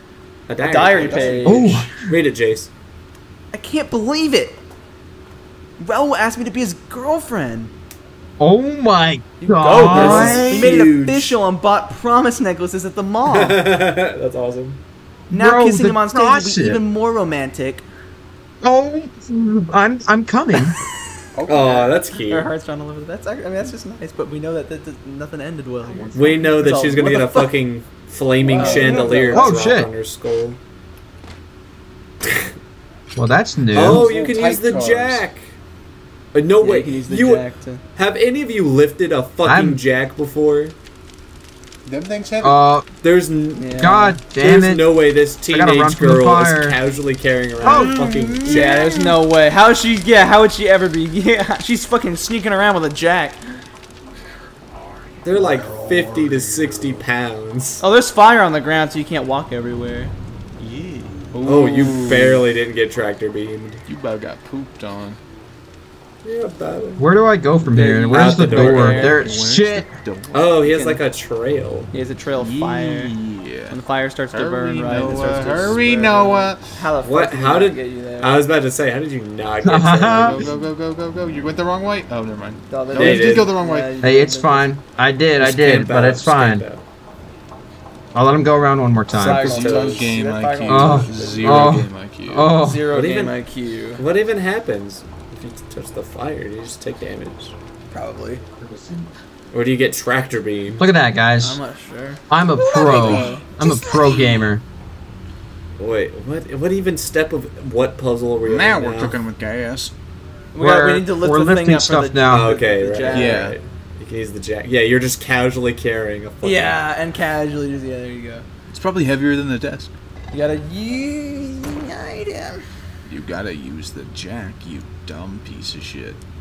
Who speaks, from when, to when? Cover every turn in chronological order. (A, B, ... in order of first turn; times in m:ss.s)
0:00.5-0:02.7 A
0:00.6-0:01.8 B
0:01.4-0:02.0 C
0:03.5-0:04.6 B
0:05.8-0:07.7 B
0:08.4-0:10.7 C
0:09.4-0:13.6 B
0:09.8-0:11.4 A
0:13.3-0:14.8 A
0:15.3-0:16.8 C
0:15.3-0:17.8 B
0:18.6-0:20.8 C
0:21.3-0:22.0 D
0:21.5-0:22.5 A
0:22.3-0:27.5 B
0:26.1-0:30.6 A
0:28.4-0:29.7 B
0:28.5-0:29.3 D
0:29.3-0:29.9 C
0:32.2-0:32.5 A
0:33.2-0:34.1 C
0:33.7-0:35.6 A
0:33.8-0:35.3 D
0:36.3-0:40.8 A
0:36.6-0:37.8 B
0:39.4-0:39.8 C
0:41.8-0:42.6 D
0:42.4-0:42.9 C
0:43.0-0:49.1 A
0:43.6-0:44.2 B
0:43.8-0:44.9 C
0:45.5-0:46.8 C
0:47.6-0:48.3 C
0:48.2-0:48.8 D
0:48.4-0:53.6 B
0:54.9-0:57.0 D
0:55.2-0:57.8 A
0:57.8-1:00.1 B
1:00.6-1:02.4 D
1:01.4-1:03.8 A
1:03.9-1:05.2 D
1:06.2-1:07.0 A
1:07.0-1:09.9 C
1:07.7-1:09.3 B
1:08.1-1:09.2 A
1:08.6-1:10.5 D
1:10.3-1:11.9 A
1:10.6-1:11.0 B
1:11.9-1:13.1 B
1:12.4-1:13.8 D
1:13.7-1:18.5 B
1:14.3-1:16.6 D
1:17.0-1:20.4 A
1:19.6-1:20.5 C
1:20.0-1:23.9 D
1:22.7-1:24.7 B
1:22.9-1:23.5 A
1:24.0-1:26.6 C
1:25.4-1:26.8 A
1:28.1-1:29.5 C
1:29.1-1:30.1 A
1:29.1-1:31.7 B
1:29.3-1:32.5 D
1:30.7-1:32.9 C
1:32.6-1:34.0 B
1:32.9-1:33.4 A
1:34.0-1:37.6 A
1:37.9-1:38.4 B
1:39.5-1:40.8 A
1:40.8-1:41.6 C
1:41.4-1:44.5 B
1:42.3-1:44.6 C
1:42.7-1:43.3 D
1:45.8-1:49.2 A
1:48.4-1:49.9 D
1:50.5-1:53.4 B
1:50.6-1:52.6 C
1:52.3-1:56.8 A
1:53.1-1:53.6 D
1:56.4-1:58.4 B
1:58.7-2:00.0 D
2:00.3-2:02.6 B
2:03.1-2:06.2 D